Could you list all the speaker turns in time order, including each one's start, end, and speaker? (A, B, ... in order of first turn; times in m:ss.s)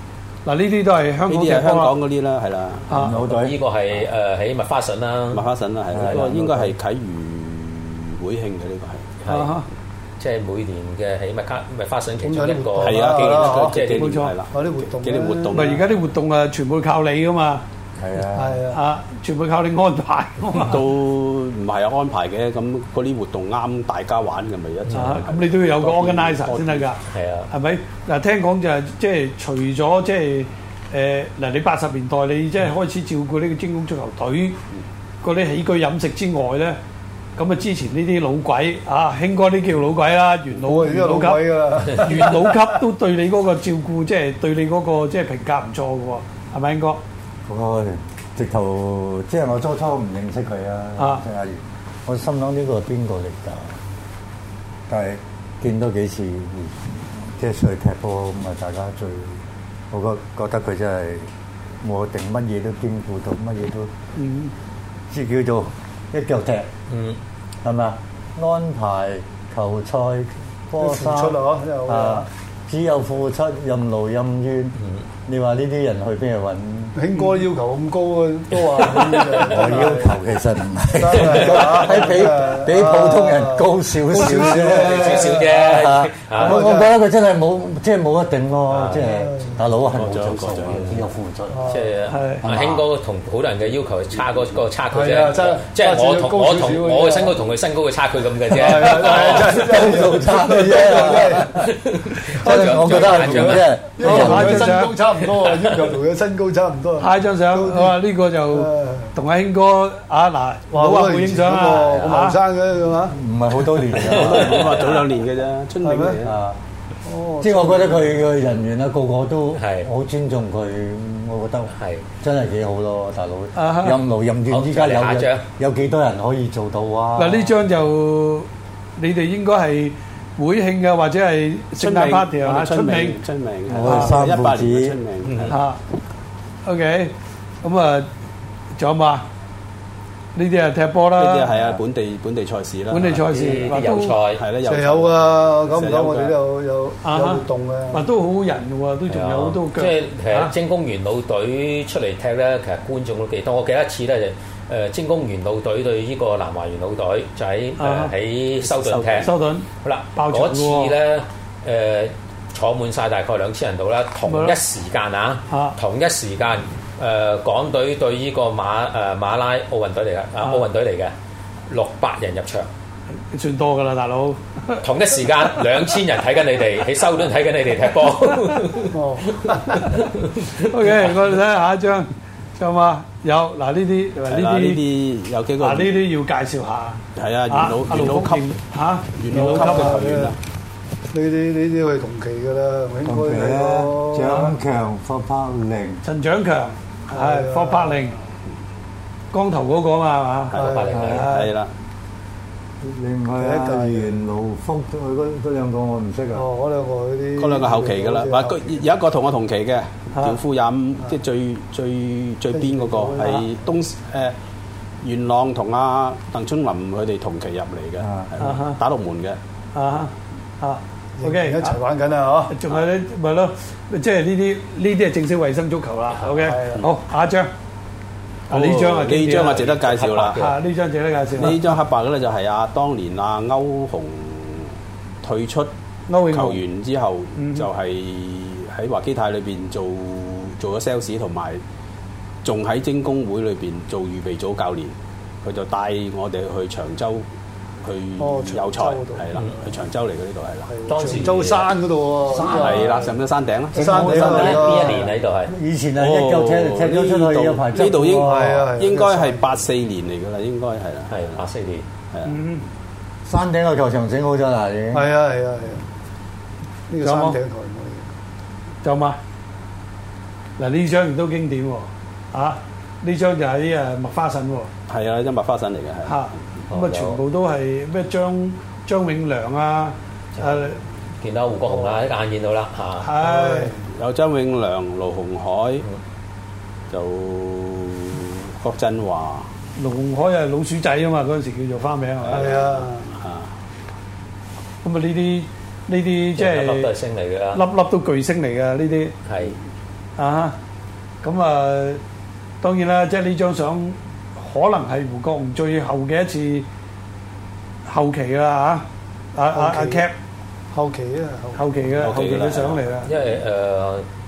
0:00.4-0:01.9 A
0:01.2-0:03.1 B
0:02.9-0:03.6 C
0:03.3-0:05.4 D
0:05.3-0:09.4 B
0:05.9-0:06.7 C
0:06.0-0:06.3 D
0:09.2-0:09.5 D
0:09.3-0:09.6 A
0:10.2-0:14.1 D
0:12.2-0:15.8 E
0:12.8-0:16.0 B
0:14.0-0:14.3 A
0:15.5-0:17.6 A
0:18.0-0:18.6 C
0:18.3-0:18.8 E
0:18.7-0:20.7 A
0:20.5-0:27.0 B
0:24.9-0:25.2 D
0:25.0-0:26.9 A
0:27.1-0:27.5 D
0:27.5-0:34.6 A
0:35.2-0:36.8 A
0:37.4-0:41.4 A
0:40.6-0:42.7 E
0:42.0-0:47.0 A
0:47.5-0:53.7 C
0:54.9-1:01.3 C
1:01.8-1:03.9 C
1:04.2-1:04.5 A
1:05.1-1:06.7 C
1:06.9-1:07.2 D
1:07.6-1:17.0 C
1:10.8-1:12.3 E
1:14.8-1:15.0 D
1:16.9-1:20.1 E
1:19.4-1:31.7 C
1:21.0-1:25.6 E
1:21.4-1:21.8 D
1:24.7-1:26.6 D
1:26.4-1:26.9 E
1:28.7-1:29.0 D
1:29.0-1:29.6 E
1:29.9-1:31.1 B
1:31.5-1:31.9 E
1:31.6-1:39.6 D
1:32.4-1:32.8 C
1:34.9-1:37.5 E
1:38.5-1:41.5 E
1:39.2-1:41.7 C
1:41.5-1:43.7 D
1:42.3-1:44.8 C
1:42.4-1:49.1 E
1:44.0-1:45.0 A
1:47.0-1:52.4 A
1:50.7-1:53.2 E
1:53.1-1:54.7 C
1:53.9-1:54.7 D
1:54.0-1:56.3 B
1:55.8-1:56.2 E
1:56.2-1:56.6 C
1:57.0-1:58.0 E
1:57.4-2:07.6 C
1:59.5-1:59.9 D
2:01.7-2:02.0 D
2:03.6-2:03.9 A
2:04.5-2:05.5 D
2:07.2-2:08.5 A
2:09.0-2:13.1 A
2:11.7-2:15.6 B
2:13.7-2:15.0 C
2:15.2-2:15.6 D
2:16.6-2:18.1 A
2:18.8-2:19.2 A
2:20.3-2:21.4 A
2:21.1-2:26.4 B
2:21.5-2:21.8 C
2:22.9-2:24.2 A
2:23.3-2:24.4 D
2:24.6-2:28.1 E
2:27.0-2:27.4 A
2:27.9-2:30.5 A
2:29.1-2:39.3 D
2:38.6-2:39.4 B
2:39.3-2:40.9 A
2:39.8-2:51.1 D
2:51.7-2:52.7 D
2:53.3-2:54.4 A
2:54.8-3:00.6 D
2:58.9-2:59.9 E
3:00.7-3:02.1 A
3:02.6-3:04.8 A
3:04.2-3:06.2 B
3:05.6-3:09.8 A
3:07.1-3:10.4 B
3:09.3-3:10.4 E
3:11.1-3:14.5 E
3:13.0-3:16.0 C
3:16.0-3:18.2 A
3:17.1-3:18.1 E
3:19.3-3:20.6 A
3:20.5-3:21.7 B
3:20.5-3:21.1 E
3:20.6-3:21.3 D
3:20.9-3:21.3 C
3:22.8-3:26.4 C
3:23.4-3:24.2 E
3:26.3-3:28.8 E
3:27.4-3:34.4 B
3:32.5-3:33.5 E
3:35.0-3:39.4 B
3:38.0-3:38.3 C
3:38.5-3:38.8 A
3:39.8-3:41.6 A
3:41.2-3:42.6 E
3:42.5-3:47.5 A
3:46.2-3:46.9 E
3:48.5-3:50.5 B
3:48.5-3:49.4 A
3:49.5-3:50.6 D
3:50.4-3:51.4 A
3:51.3-3:54.7 B
3:55.2-4:01.6 B
4:02.4-4:07.2 B
4:07.8-4:10.7 B
4:08.2-4:09.3 E
4:09.3-4:09.6 D
4:10.7-4:13.1 E
4:10.9-4:11.7 D
4:12.4-4:14.4 B
4:13.7-4:18.6 C
4:13.7-4:15.1 E
4:14.2-4:15.5 D
4:16.0-4:21.4 B
4:18.2-4:19.6 E
4:21.1-4:21.8 D
4:22.1-4:22.4 B
4:23.2-4:25.1 C
4:24.9-4:25.8 E
4:26.9-4:28.1 E
4:28.8-4:29.2 A
4:30.6-4:34.7 A
4:34.9-4:36.3 B
4:36.1-4:40.8 A
4:36.7-4:37.2 D
4:40.3-4:40.6 D
4:41.2-4:43.1 D
4:41.6-4:42.0 E
4:43.0-4:43.7 A
4:43.2-4:43.8 E
4:43.8-4:45.8 B
4:46.9-4:49.5 B
4:49.8-4:52.3 A
4:52.2-4:53.5 B
4:52.3-4:53.1 E
4:54.8-4:56.9 A
4:56.4-4:57.6 D
4:57.5-4:59.1 A
4:59.2-4:59.5 D
5:00.2-5:00.6 A
5:01.2-5:02.0 A
5:02.6-5:06.6 A
5:07.9-5:08.8 A
5:09.4-5:10.1 A
5:09.5-5:10.1 E
5:10.7-5:11.7 E
5:11.6-5:13.0 A
5:11.8-5:13.0 B
5:13.0-5:14.0 D